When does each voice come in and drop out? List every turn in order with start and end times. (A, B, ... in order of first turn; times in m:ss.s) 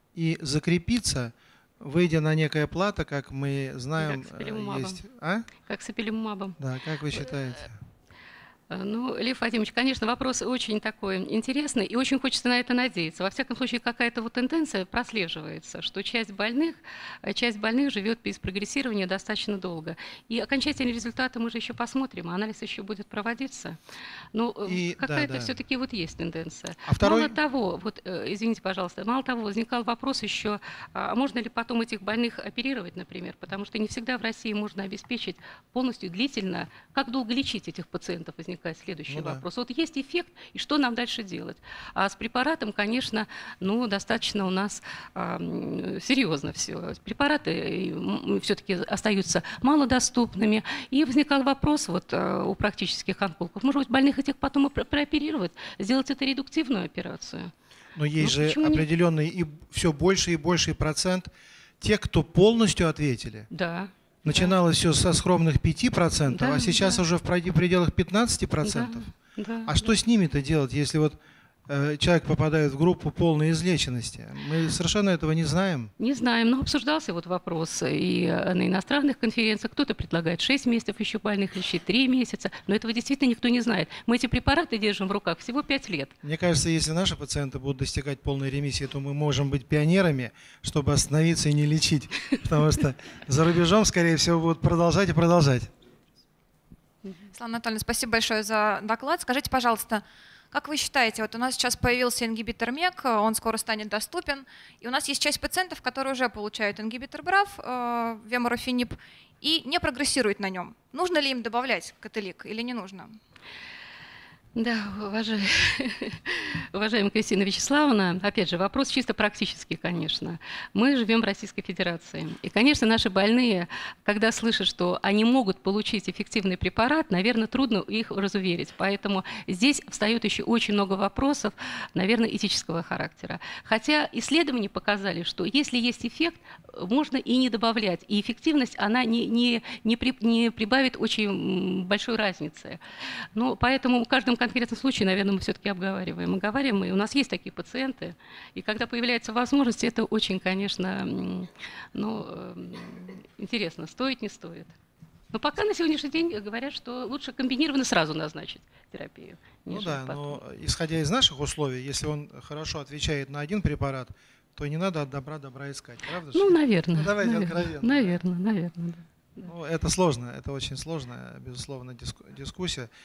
0:00.2-0:05.5 A
0:04.0-0:05.0 B
0:05.6-0:06.6 B
0:06.6-0:07.7 A
0:08.7-0:23.8 B
0:24.3-0:57.5 B
0:24.7-0:25.6 A
0:26.9-0:27.4 A
0:39.1-0:39.4 A
0:58.0-1:01.3 A
0:58.2-0:58.9 B
1:01.8-1:03.5 A
1:03.5-1:04.5 B
1:04.2-1:09.1 A
1:06.3-1:07.0 B
1:08.6-1:09.9 B
1:09.7-1:15.9 A
1:16.0-1:26.1 B
1:26.2-1:35.7 A
1:37.3-1:53.2 C
1:54.6-2:22.8 B
2:23.4-2:34.7 B
2:35.3-2:40.4 B
2:39.7-2:48.2 A
2:46.3-2:49.5 B
2:49.4-2:52.9 A